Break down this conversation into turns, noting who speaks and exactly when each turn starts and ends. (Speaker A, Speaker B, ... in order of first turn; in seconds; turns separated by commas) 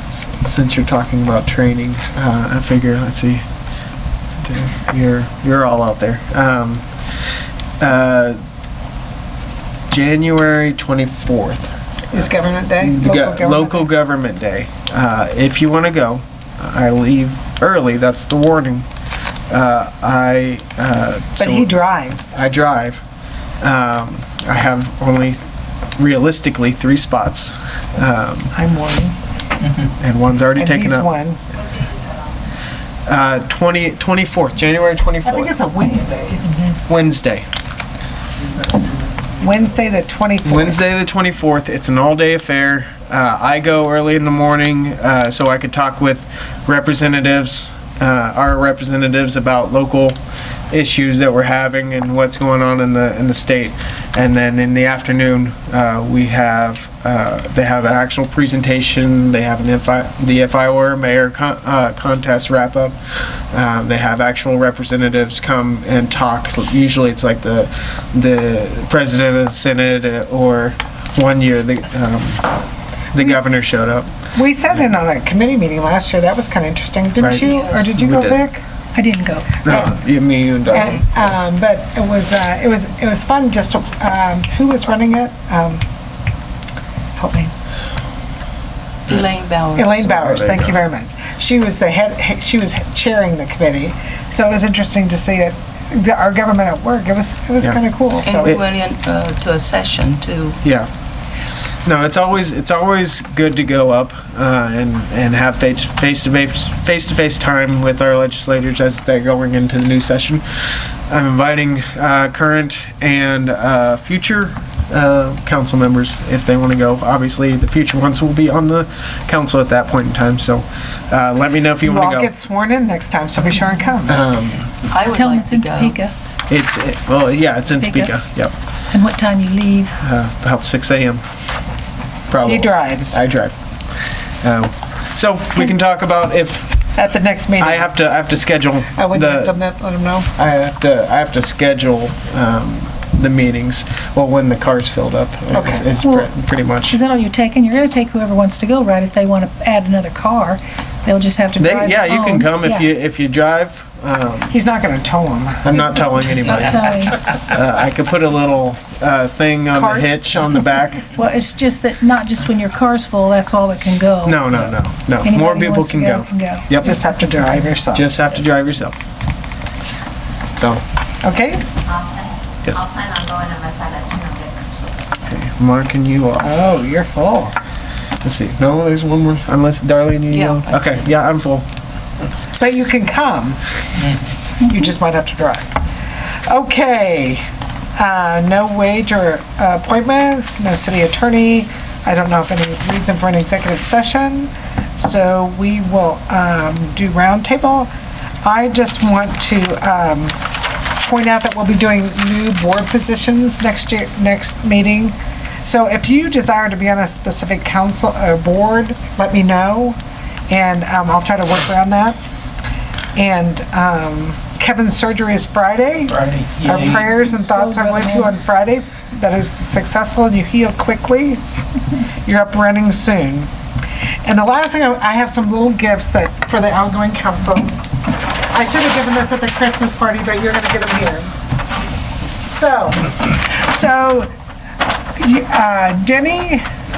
Speaker A: 0.1-3.4, Speaker A: 4.4-6.8, Speaker A: 7.8-8.4, Speaker A: 9.9-11.7, Speaker B: 12.1-13.9, Speaker A: 12.8-18.8, Speaker A: 19.5-21.7, Speaker B: 21.4-22.4, Speaker A: 22.3-23.0, Speaker A: 23.6-25.4, Speaker A: 26.0-28.5, Speaker B: 28.5-29.1, Speaker A: 30.0-31.1, Speaker B: 30.5-31.4, Speaker A: 33.0-35.5, Speaker B: 35.2-36.8, Speaker A: 36.9-37.4, Speaker B: 39.4-40.8, Speaker A: 40.4-50.2, Speaker A: 50.7-63.0, Speaker A: 63.5-72.5, Speaker A: 73.1-74.1, Speaker B: 74.3-78.6, Speaker A: 77.2-78.4, Speaker C: 77.4-77.9, Speaker D: 78.9-79.6, Speaker A: 79.6-81.2, Speaker B: 80.7-85.8, Speaker B: 87.2-87.5, Speaker C: 89.1-90.3, Speaker B: 89.7-98.5, Speaker C: 98.2-100.6, Speaker A: 98.3-98.6, Speaker A: 100.6-100.9, Speaker A: 101.8-110.4, Speaker A: 111.1-122.3, Speaker B: 121.8-124.2, Speaker A: 124.1-124.7, Speaker C: 124.9-126.0, Speaker D: 125.0-126.1, Speaker A: 126.5-128.5, Speaker D: 127.8-128.1, Speaker D: 128.9-129.9, Speaker A: 130.0-131.2, Speaker A: 132.3-133.5, Speaker B: 132.4-133.2, Speaker A: 134.4-136.8, Speaker B: 136.9-137.9, Speaker A: 137.6-139.6, Speaker B: 138.9-140.3, Speaker A: 140.3-147.0, Speaker B: 145.5-145.8, Speaker D: 146.0-146.3, Speaker D: 146.9-152.9, Speaker A: 151.6-154.5, Speaker B: 154.5-155.9, Speaker A: 155.6-161.1, Speaker D: 156.4-157.2, Speaker B: 159.7-160.1, Speaker D: 161.1-164.4, Speaker A: 164.2-166.9, Speaker D: 165.2-166.6, Speaker B: 166.8-168.1, Speaker A: 167.9-168.9, Speaker A: 170.6-170.8, Speaker B: 171.2-171.6, Speaker E: 171.8-174.6, Speaker A: 175.3-176.5, Speaker B: 176.4-177.5, Speaker A: 178.2-181.7, Speaker C: 180.3-181.1, Speaker B: 182.6-183.6, Speaker B: 184.6-185.7, Speaker B: 186.4-187.4, Speaker B: 188.0-197.9, Speaker B: 198.4-200.4, Speaker B: 200.9-209.9, Speaker B: 210.5-212.2, Speaker B: 213.2-221.4, Speaker D: 217.2-218.3, Speaker B: 222.2-223.5, Speaker B: 224.2-227.8, Speaker B: 228.4-231.3, Speaker B: 232.4-234.3, Speaker B: 235.2-236.6